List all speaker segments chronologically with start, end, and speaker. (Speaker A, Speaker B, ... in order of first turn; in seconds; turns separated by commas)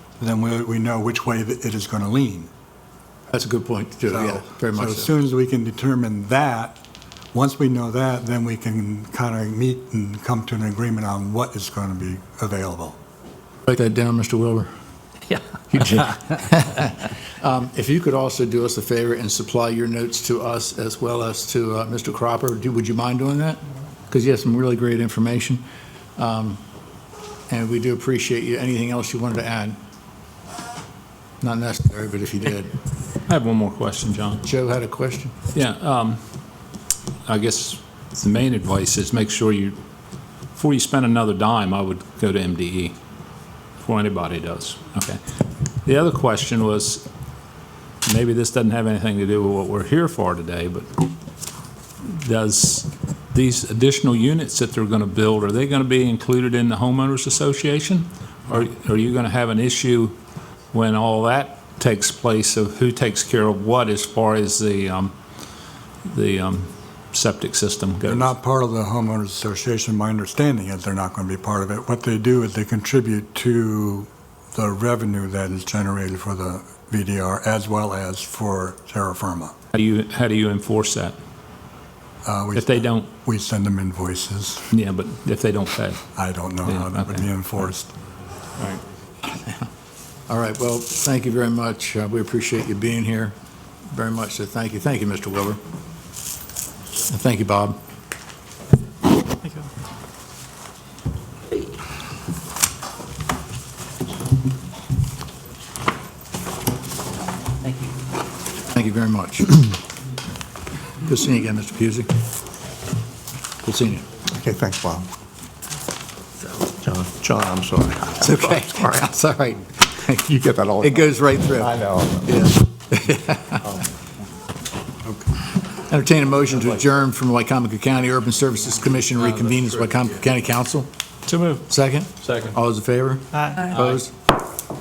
Speaker A: 0.2-2.5, Speaker B: 3.3-5.1, Speaker A: 4.1-6.8, Speaker A: 7.3-13.0, Speaker B: 13.7-14.7, Speaker B: 15.7-25.6, Speaker B: 26.2-26.6, Speaker B: 27.5-29.8, Speaker B: 31.4-32.7, Speaker C: 33.3-34.4, Speaker B: 34.4-35.4, Speaker C: 35.5-36.2, Speaker C: 37.3-39.8, Speaker C: 40.5-43.0, Speaker C: 43.8-45.2, Speaker C: 45.8-47.0, Speaker C: 48.0-51.1, Speaker C: 52.0-60.1, Speaker C: 60.7-65.1, Speaker C: 66.1-68.3, Speaker A: 68.0-79.5, Speaker C: 79.7-81.2, Speaker A: 82.2-84.7, Speaker C: 82.6-83.1, Speaker C: 84.7-86.1, Speaker A: 86.2-87.9, Speaker C: 86.7-87.7, Speaker B: 90.3-93.3, Speaker B: 93.9-95.6, Speaker B: 97.0-97.8, Speaker B: 108.7-109.8, Speaker B: 111.0-112.1, Speaker B: 113.6-114.1, Speaker D: 114.3-115.1, Speaker D: 116.7-119.1, Speaker B: 118.2-123.6, Speaker D: 120.3-122.5, Speaker B: 125.9-130.9, Speaker B: 131.7-134.1, Speaker C: 133.7-134.0